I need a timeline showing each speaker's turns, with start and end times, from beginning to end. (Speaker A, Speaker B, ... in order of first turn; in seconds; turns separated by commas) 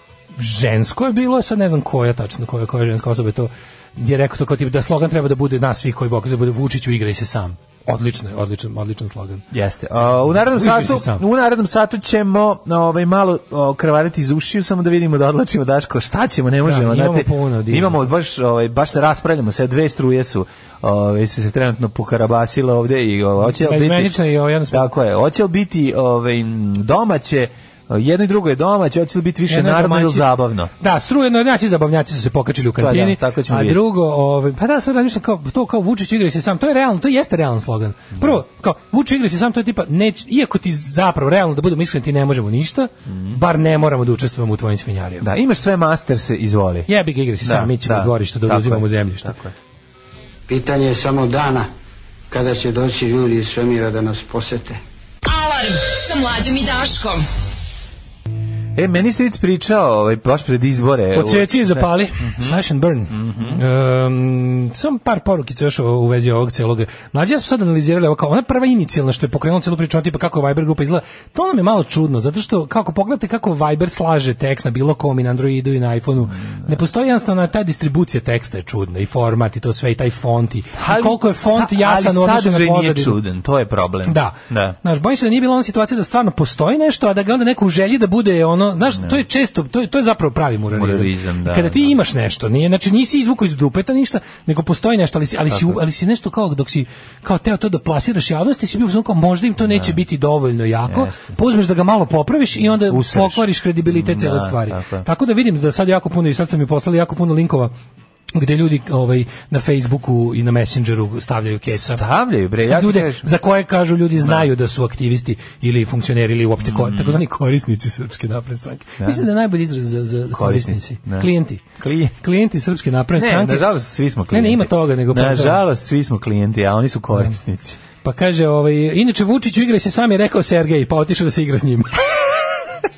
Speaker A: 0.3-9.4, Speaker B: 9.5-24.2, Speaker A: 10.4-11.2, Speaker A: 16.6-18.1, Speaker A: 23.4-24.9, Speaker B: 24.7-30.7, Speaker A: 29.5-45.2, Speaker B: 32.8-33.8, Speaker B: 43.1-43.4, Speaker B: 45.2-46.9, Speaker A: 46.9-49.3, Speaker B: 47.4-49.5, Speaker C: 50.5-51.7, Speaker C: 52.3-54.8, Speaker D: 55.2-57.2, Speaker B: 58.8-62.6, Speaker A: 61.1-83.2, Speaker B: 63.1-63.6, Speaker B: 76.4-76.7, Speaker B: 80.7-84.8, Speaker A: 84.0-107.7, Speaker B: 88.9-89.2, Speaker B: 90.7-91.9, Speaker B: 95.5-95.8, Speaker B: 99.6-100.0, Speaker B: 100.9-101.3, Speaker B: 102.8-105.0, Speaker A: 108.3-112.0, Speaker B: 111.7-113.3, Speaker A: 112.6-121.6, Speaker B: 114.2-114.5, Speaker B: 116.6-117.2, Speaker B: 119.0-119.2, Speaker B: 120.3-122.2, Speaker A: 122.2-123.7, Speaker B: 123.2-127.8, Speaker A: 124.3-125.6, Speaker A: 128.0-132.4